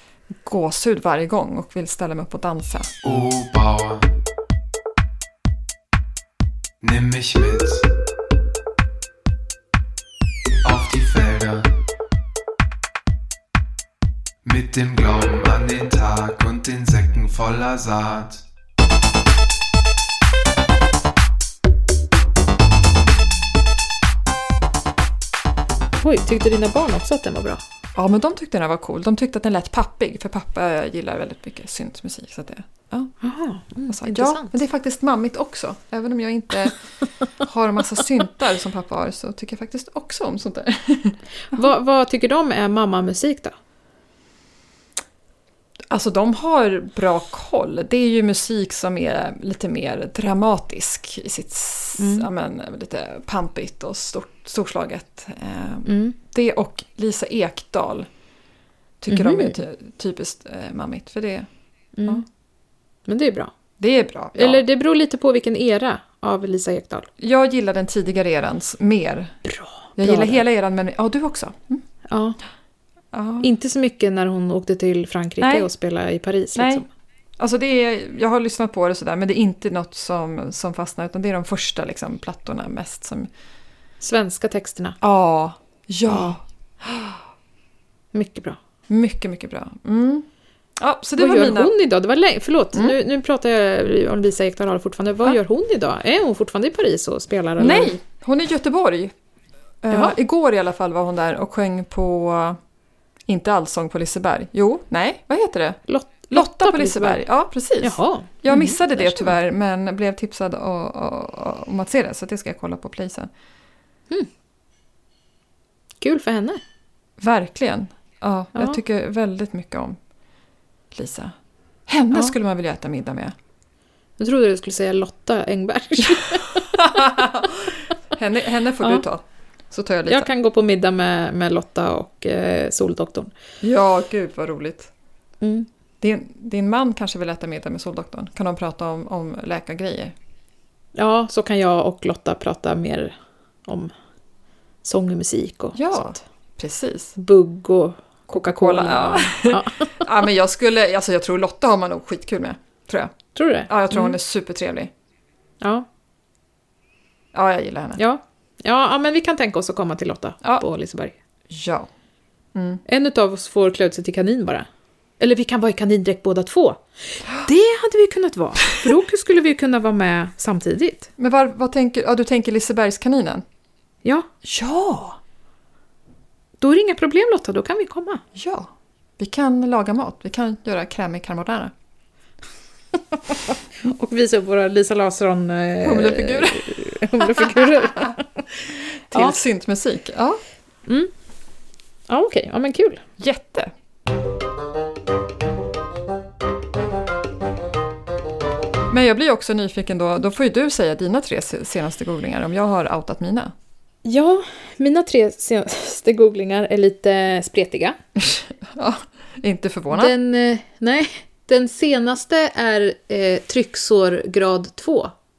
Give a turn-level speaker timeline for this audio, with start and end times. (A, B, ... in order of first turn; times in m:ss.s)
0:00.4-0:02.9 A
0:03.0-0:04.1 B
0:06.8-0:07.9 B
0:10.6-0:11.7 B
0:14.4-0:18.4 B
0:26.0-0:27.6 C
0:28.0-0:33.1 A
0:33.2-0:34.6 C
0:33.9-0:36.8 A
0:37.4-0:41.7 A
0:41.5-0:43.5 C
0:45.9-0:58.1 A
0:52.0-0:52.3 C
0:55.8-0:56.2 C
0:59.0-1:01.5 A
0:59.1-0:59.6 C
1:02.0-1:02.2 C
1:03.0-1:03.5 C
1:03.8-1:04.6 A
1:04.4-1:07.1 C
1:07.2-1:09.4 A
1:09.4-1:10.4 C
1:10.0-1:11.8 A
1:12.1-1:12.4 C
1:13.1-1:13.5 A
1:13.4-1:16.8 C
1:15.4-1:15.7 A
1:16.5-1:16.8 A
1:17.4-1:23.3 A
1:24.0-1:25.0 C
1:25.0-1:27.2 A
1:26.1-1:26.3 C
1:28.1-1:28.6 C
1:28.9-1:30.2 A
1:30.8-1:31.7 A
1:31.2-1:37.9 C
1:37.6-1:39.1 A
1:39.8-1:42.6 A
1:39.9-1:40.2 C
1:43.3-1:45.8 A
1:45.9-1:47.2 C
1:46.3-1:53.3 A
1:47.8-1:49.4 C
1:56.0-1:56.6 C
1:57.2-2:00.0 A
1:58.5-1:58.8 C
2:00.9-2:01.3 A
2:01.9-2:03.3 A
2:04.2-2:07.3 C
2:06.5-2:10.3 A
2:10.1-2:13.3 C
2:13.6-2:14.9 A
2:15.4-2:15.7 C
2:16.0-2:20.1 A
2:20.9-2:23.1 C
2:23.6-2:23.9 C
2:24.8-2:26.2 C
2:25.7-2:27.2 A
2:27.2-2:30.1 C
2:28.3-2:33.2 A
2:33.3-2:34.2 C
2:33.7-2:34.9 A
2:35.6-2:35.9 C
2:37.3-2:38.0 A
2:38.0-2:41.2 C
2:41.5-2:41.9 A
2:42.5-2:42.8 A
2:42.8-2:44.7 C
2:45.2-2:51.1 C
2:51.2-2:53.4 A
2:54.0-2:54.3 C
2:54.4-2:55.2 A
2:56.6-2:58.2 C
2:58.3-3:01.7 A
3:02.9-3:08.2 C
3:05.8-3:08.1 A
3:09.1-3:10.4 A
3:09.1-3:09.4 C
3:12.1-3:13.0 C
3:13.2-3:13.7 A
3:18.9-3:23.5 A
3:24.0-3:28.0 C
3:28.2-3:30.1 A
3:29.9-3:35.1 C